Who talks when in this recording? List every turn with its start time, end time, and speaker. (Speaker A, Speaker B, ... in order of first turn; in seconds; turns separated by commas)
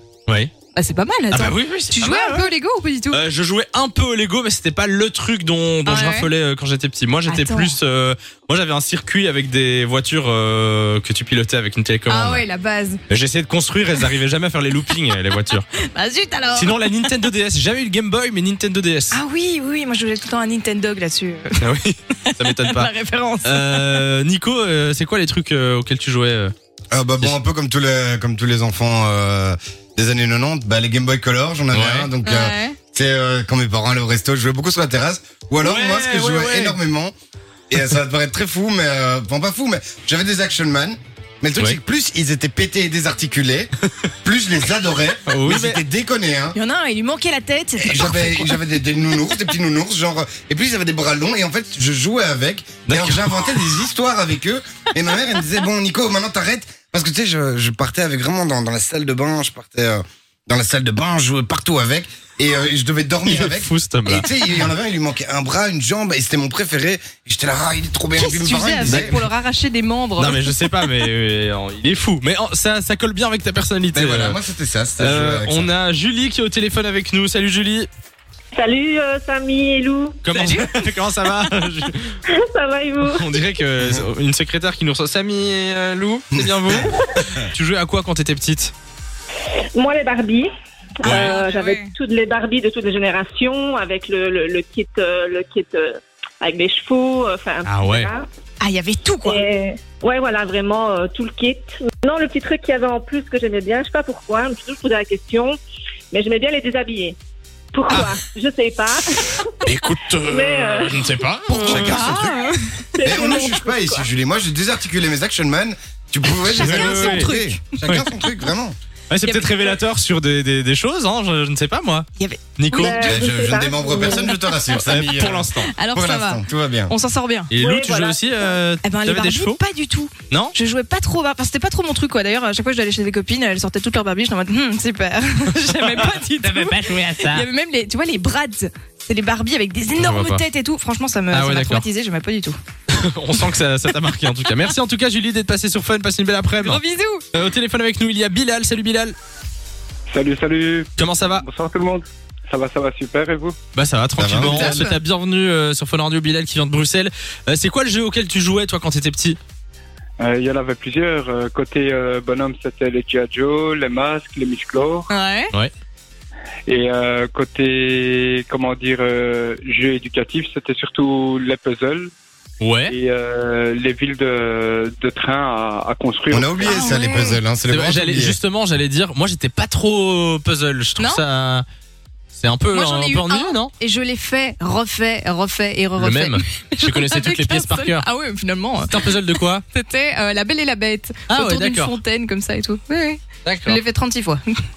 Speaker A: 0.3-0.5, Speaker B: 0.7-3.2, Speaker A: 1.3-2.5, Speaker A: 3.1-12.4, Speaker B: 5.8-6.3, Speaker B: 7.2-7.8, Speaker B: 12.1-13.0, Speaker A: 13.1-15.6, Speaker B: 15.7-17.1, Speaker A: 16.5-19.2, Speaker B: 19.1-21.7, Speaker A: 21.6-22.9, Speaker B: 22.2-24.1, Speaker A: 23.4-26.5, Speaker C: 26.9-37.1, Speaker A: 31.7-32.1, Speaker B: 32.2-32.8, Speaker A: 35.6-36.8, Speaker C: 37.7-43.7, Speaker A: 41.5-41.8, Speaker C: 44.2-46.5, Speaker A: 45.3-45.8, Speaker B: 46.5-48.6, Speaker C: 47.8-69.2, Speaker A: 52.9-53.8, Speaker A: 63.2-64.3, Speaker B: 68.2-71.0, Speaker A: 68.9-69.2, Speaker A: 70.2-74.4, Speaker C: 73.9-75.7, Speaker A: 75.0-77.9, Speaker D: 78.5-80.6, Speaker A: 80.2-82.1, Speaker D: 82.3-83.2, Speaker A: 83.0-88.7, Speaker C: 83.8-84.0, Speaker C: 86.3-87.4, Speaker D: 89.7-90.5, Speaker D: 91.0-98.3, Speaker A: 91.0-91.4, Speaker B: 91.1-91.9, Speaker A: 97.7-98.1, Speaker B: 98.6-99.4, Speaker D: 99.2-105.6, Speaker D: 106.1-107.2, Speaker D: 107.7-112.2, Speaker A: 109.7-110.3, Speaker A: 110.8-112.1, Speaker B: 111.5-112.6, Speaker C: 111.5-112.4, Speaker D: 112.9-114.1, Speaker C: 113.0-118.8, Speaker B: 116.5-117.6, Speaker A: 116.5-118.1, Speaker A: 119.1-123.1, Speaker B: 119.2-119.8, Speaker B: 122.2-123.2, Speaker D: 122.7-124.3, Speaker C: 122.8-126.9, Speaker A: 124.8-125.7, Speaker B: 125.7-127.5, Speaker A: 127.5-129.6, Speaker D: 127.6-128.6, Speaker B: 128.8-142.6, Speaker A: 135.7-137.4, Speaker A: 139.9-140.4, Speaker A: 141.3-141.8, Speaker A: 142.9-146.8, Speaker B: 146.6-147.2, Speaker A: 147.3-149.1, Speaker E: 150.1-153.6, Speaker A: 151.0-151.4, Speaker A: 153.7-159.4, Speaker C: 154.2-154.8, Speaker B: 154.3-155.0, Speaker E: 160.2-165.1, Speaker B: 165.1-165.5, Speaker E: 166.7-172.1, Speaker A: 172.6-172.9, Speaker E: 172.9-176.6, Speaker C: 176.3-178.4, Speaker B: 176.6-177.4, Speaker A: 177.7-181.7, Speaker B: 181.0-181.2, Speaker A: 182.3-183.7, Speaker B: 182.7-194.5, Speaker A: 186.0-188.0, Speaker A: 188.8-189.6, Speaker A: 191.3-191.9, Speaker A: 193.4-193.8